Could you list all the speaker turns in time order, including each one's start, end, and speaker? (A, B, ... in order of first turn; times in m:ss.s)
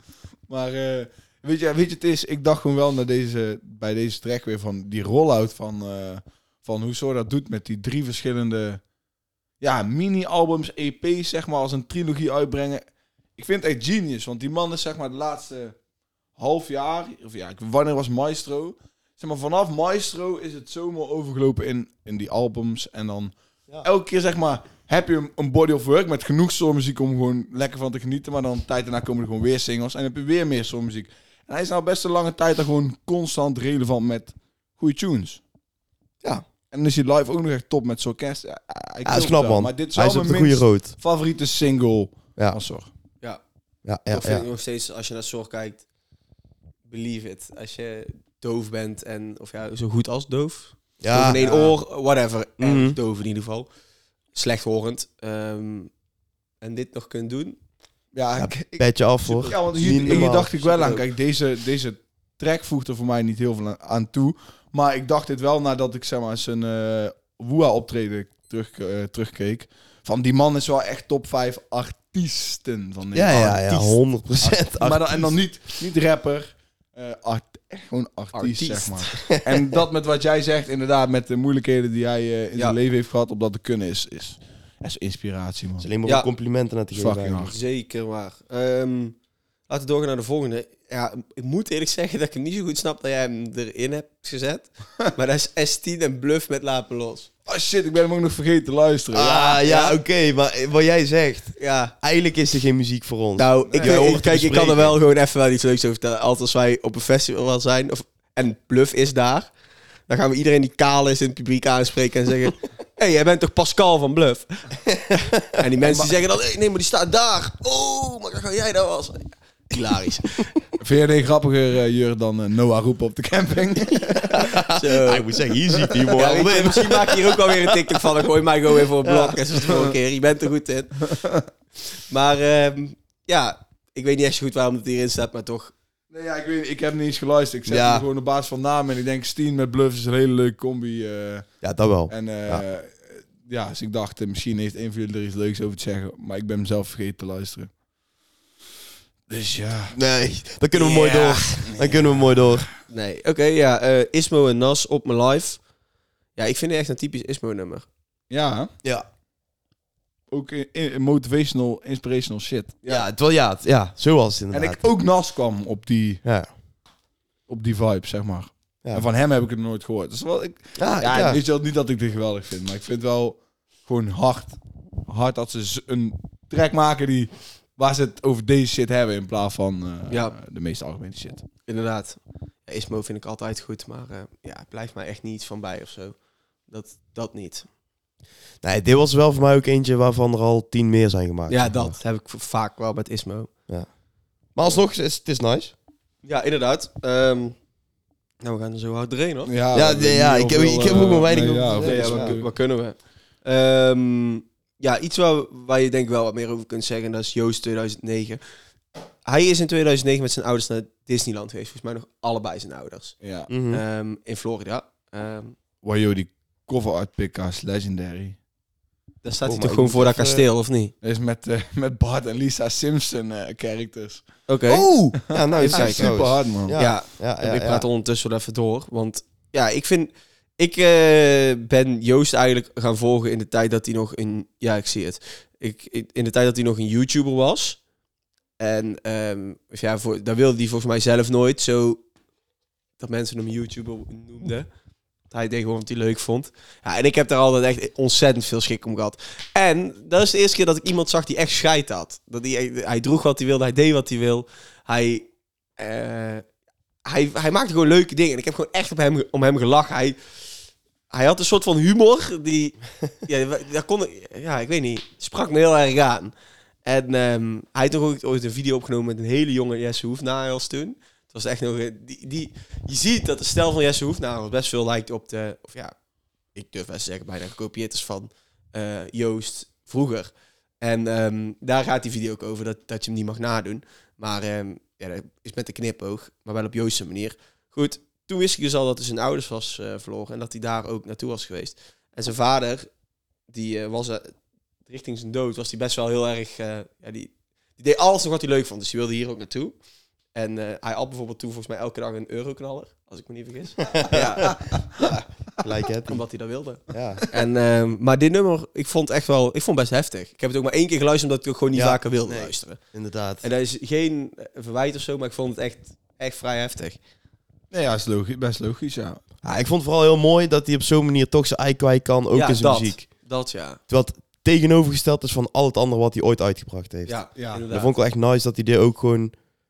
0:00.5-0:08.8 A
0:09.6-0:12.8 A
0:13.4-0:15.8 A
0:16.4-0:35.4 A
0:36.7-0:42.9 A
0:39.0-0:41.0 B
0:43.8-0:44.4 B
0:44.1-0:45.8 C
0:46.9-0:53.7 C
0:51.0-0:51.4 B
0:51.4-0:51.8 A
0:52.6-0:53.0 B
0:54.3-0:55.9 C
0:56.6-0:57.6 C
0:58.1-1:25.9 A
0:58.4-1:00.5 B
0:59.4-1:01.0 C
1:13.1-1:15.3 B
1:18.3-1:19.3 C
1:19.3-1:19.6 B
1:25.8-1:27.6 B
1:26.9-1:27.6 A
1:27.5-1:29.2 C
1:29.7-1:37.3 C
1:37.5-1:39.6 A
1:39.1-1:45.0 B
1:39.6-1:40.0 C
1:41.6-1:41.9 C
1:43.4-1:49.5 C
1:43.7-1:44.1 A
1:50.1-2:00.5 C
2:00.8-2:04.5 A
2:04.3-2:08.0 B
2:04.7-2:05.3 C
2:06.2-2:11.0 C
2:09.6-2:10.0 A
2:11.0-2:11.5 A
2:12.1-2:15.7 C
2:16.1-2:21.5 A
2:17.7-2:18.0 B
2:21.6-2:22.6 B
2:22.1-2:27.7 A
2:29.3-2:30.0 A
2:29.9-2:32.7 B
2:30.7-2:31.6 C
2:31.7-2:32.7 A
2:32.9-2:35.6 C
2:36.4-2:37.9 C
2:38.3-2:38.7 A
2:40.3-2:42.8 A
2:42.9-2:44.9 B
2:44.5-2:46.2 A
2:46.2-2:46.5 B
2:47.5-3:01.5 A
2:50.8-2:51.4 B
3:00.1-3:00.3 C
3:01.7-3:06.2 C
3:06.7-3:07.7 C
3:08.6-3:12.0 B
3:11.5-3:13.5 C
3:14.6-3:15.7 B
3:16.2-3:17.6 C
3:18.4-3:19.5 C
3:19.4-3:22.5 A
3:19.7-3:22.4 B
3:21.8-3:28.4 C
3:29.2-3:33.2 C
3:33.2-3:33.5 A
3:33.5-3:33.8 B
3:33.7-3:35.6 C
3:35.8-3:38.4 A
3:39.2-3:40.9 C
3:39.4-3:40.5 B
3:41.0-3:44.3 A
3:44.5-3:46.2 C
3:44.7-3:47.9 B
3:45.7-3:46.8 A
3:46.7-3:57.8 C
3:58.6-4:02.0 C
4:03.0-4:04.7 C
4:05.3-4:16.4 C
4:17.0-4:20.2 C
4:21.1-4:36.0 C
4:36.6-4:52.9 C
4:53.5-4:54.3 C
4:54.9-4:59.8 C
5:00.3-5:05.1 C
5:03.9-5:06.2 B
5:06.0-5:12.8 C
5:06.9-5:07.2 B
5:11.7-5:13.5 B
5:13.4-5:17.0 C
5:17.7-5:19.2 A
5:19.4-5:23.1 B
5:22.3-5:23.8 C
5:23.9-5:27.2 B
5:27.1-5:28.0 C
5:27.4-5:27.6 A
5:27.7-5:29.3 B